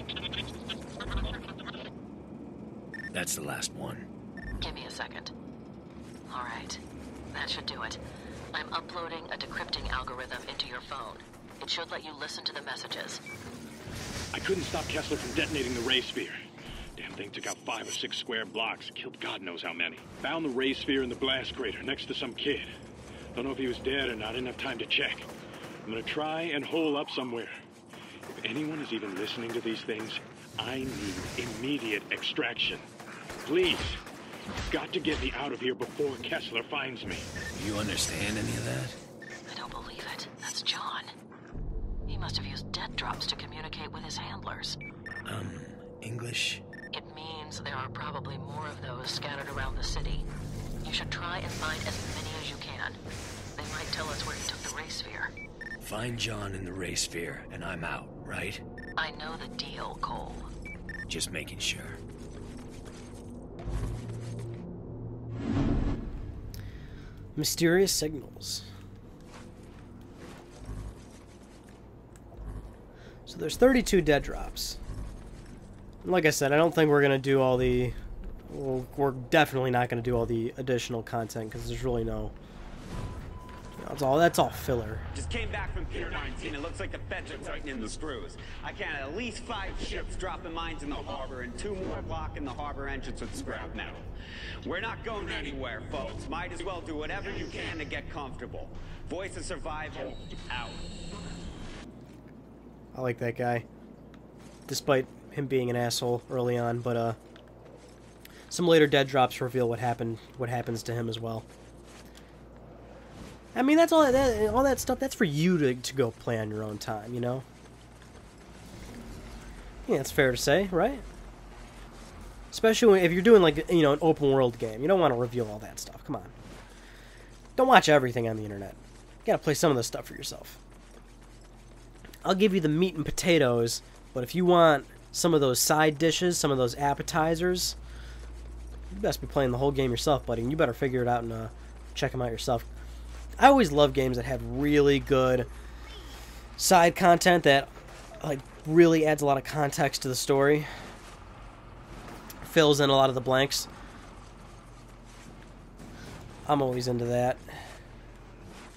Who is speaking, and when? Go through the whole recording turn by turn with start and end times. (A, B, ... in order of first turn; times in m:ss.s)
0:03.1-0:04.1 A
0:04.6-0:05.3 B
0:06.3-0:06.8 B
0:07.3-0:08.0 B
0:08.5-0:13.2 B
0:14.3-0:16.4 C
0:17.0-0:22.7 C
0:23.4-0:25.3 C
0:25.9-0:27.6 C
0:28.3-0:32.9 C
0:33.4-0:34.0 C
0:34.7-0:37.3 C
0:37.5-0:39.0 A
0:39.5-0:41.1 B
0:42.1-0:44.8 B
0:45.2-0:46.6 A
0:46.9-0:50.3 B
0:50.8-0:53.0 B
0:53.6-0:55.3 B
0:55.8-0:58.6 A
0:59.0-1:00.5 B
1:01.1-1:02.0 A
1:07.4-1:08.7 D
1:13.3-1:14.8 D
1:16.0-1:22.3 D
1:23.8-1:25.1 D
1:25.1-1:34.1 E
1:34.6-1:40.9 E
1:42.9-1:43.7 D
1:44.7-1:47.2 D
1:48.5-1:51.5 D
1:53.5-1:57.5 D
1:59.9-2:01.0 D
2:02.5-2:06.3 D
2:07.6-2:10.6 D
2:12.2-2:17.8 D
2:18.9-2:22.7 D
2:23.4-2:25.5 D
2:26.6-2:30.7 D
2:32.4-2:33.7 D
2:36.5-2:37.7 D